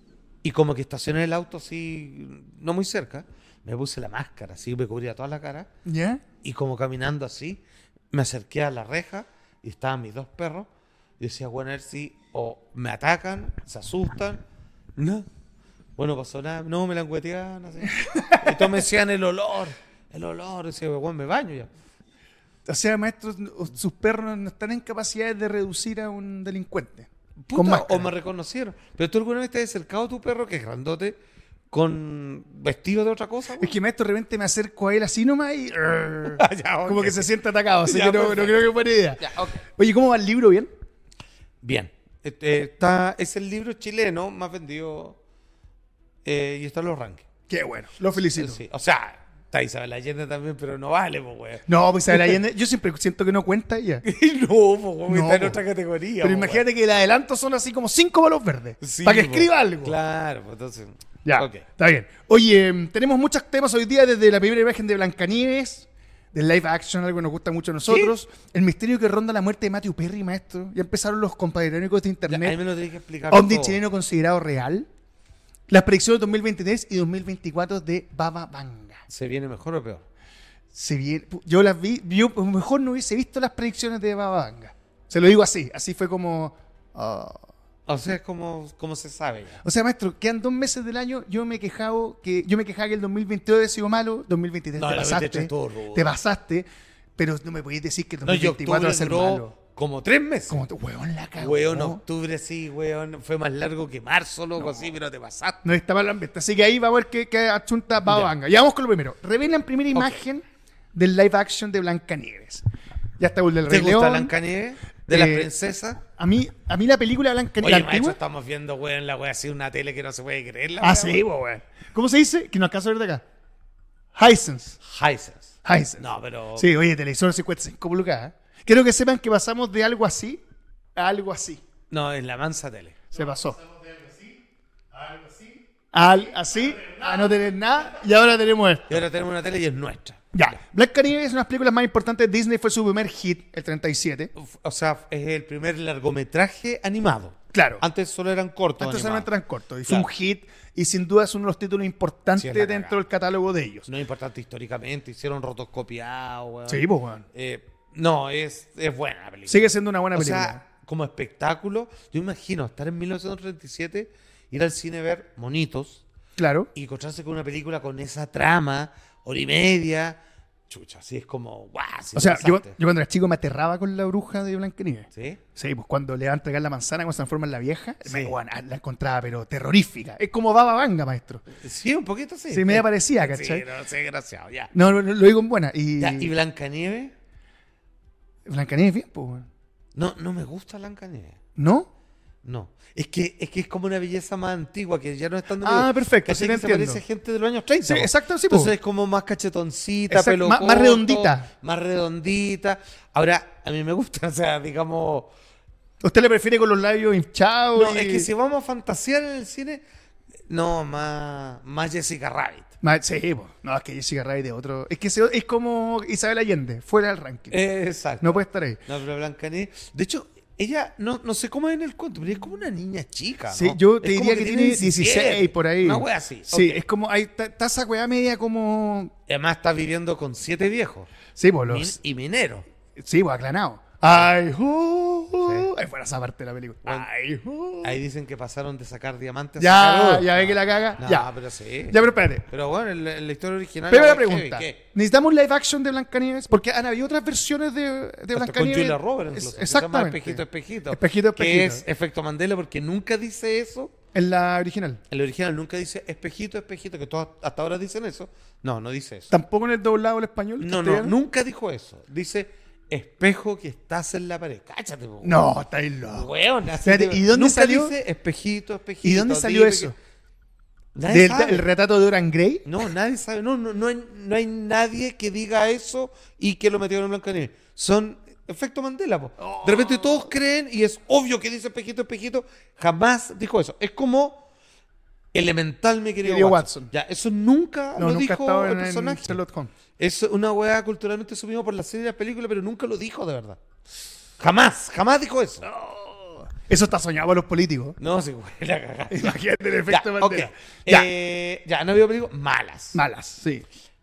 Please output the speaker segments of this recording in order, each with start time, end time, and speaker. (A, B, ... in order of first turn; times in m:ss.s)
0:00.4-0:05.7 A
0:05.8-0:06.2 B
0:06.4-0:10.7 A
0:11.2-0:14.4 A
0:15.0-0:15.2 A
0:16.0-0:21.7 A
0:17.9-0:18.8 B
0:22.7-0:28.1 B
0:27.4-0:31.2 A
0:31.7-0:33.8 A
0:33.6-0:39.2 B
0:36.3-0:39.6 A
0:39.8-0:40.7 B
0:41.6-0:45.2 A
0:46.2-0:47.3 A
0:47.5-0:48.6 B
0:48.3-0:52.4 A
0:51.7-0:54.0 B
0:54.0-0:56.6 A
0:55.1-0:55.6 B
0:56.2-1:00.0 B
0:58.8-1:01.6 A
1:01.2-1:12.6 B
1:07.9-1:08.1 A
1:12.3-1:13.8 A
1:13.3-1:14.9 B
1:15.7-1:19.0 B
1:19.1-1:20.0 A
1:20.7-1:27.5 B
1:27.9-1:29.6 A
1:29.6-1:39.5 B
1:34.8-1:36.1 A
1:38.2-1:40.6 A
1:40.5-1:42.0 B
1:41.4-1:45.6 A
1:45.6-1:50.4 B
1:48.0-1:48.3 A
1:49.9-1:50.2 A
1:50.9-1:52.6 B
1:53.2-1:54.3 B
1:53.7-1:56.0 A
1:55.1-1:55.5 B
1:56.1-1:58.2 B
1:57.6-2:01.2 A
2:00.8-2:03.2 B
2:04.1-2:04.8 B
2:04.8-2:06.7 A
2:05.6-2:10.4 B
2:11.0-2:11.6 B
2:11.9-2:13.0 A
2:13.1-2:13.6 B
2:15.9-2:19.0 B
2:18.9-2:20.3 A
2:20.3-2:24.3 B
2:24.3-2:29.3 A
2:27.5-2:27.8 B
2:28.8-2:33.9 B
2:32.4-2:33.0 A
2:33.9-2:46.0 A
2:36.7-2:37.2 B
2:39.5-2:40.6 B
2:46.4-2:46.7 B
2:46.7-2:52.7 A
2:52.1-3:01.5 B
2:55.1-2:55.4 A
2:58.0-2:58.4 A
3:01.6-3:04.7 A
3:02.5-3:03.6 B
3:04.7-3:06.3 B
3:06.0-3:07.1 A
3:08.4-3:09.5 B
3:09.9-3:11.4 A
3:11.6-3:11.9 B
3:12.4-3:25.3 A
3:15.6-3:17.0 B
3:17.8-3:18.7 B
3:20.1-3:21.5 B
3:26.0-3:28.3 B
3:27.7-3:29.8 A
3:30.5-3:32.7 A
3:32.8-3:37.6 B
3:37.5-3:46.8 A
3:38.2-3:38.8 B
3:43.5-3:49.1 B
3:49.3-3:51.1 A
3:51.4-3:52.0 B
3:51.7-3:52.6 A
3:53.0-3:57.9 B
3:55.4-3:55.7 A
3:57.8-4:04.8 A
3:59.6-4:01.3 B
4:01.9-4:02.4 B
4:03.9-4:11.8 B
4:08.3-4:13.9 A
4:14.1-4:15.0 B
4:15.1-4:19.3 A
4:19.3-4:21.1 B
4:20.6-4:25.4 A
4:25.2-4:26.3 B
4:26.1-4:29.9 A
4:26.8-4:27.9 B
4:29.0-4:29.9 B
4:30.9-4:31.7 A
4:31.1-4:32.7 B
4:32.6-4:44.4 A
4:39.4-4:40.3 B
4:45.3-4:49.4 A
4:46.2-4:46.9 B
4:48.0-4:49.7 B
4:50.0-4:53.6 A
4:54.4-4:55.6 A
4:55.6-4:58.0 B
4:58.0-4:59.4 A
4:59.1-5:01.1 B
4:59.9-5:03.0 A
5:02.9-5:03.6 B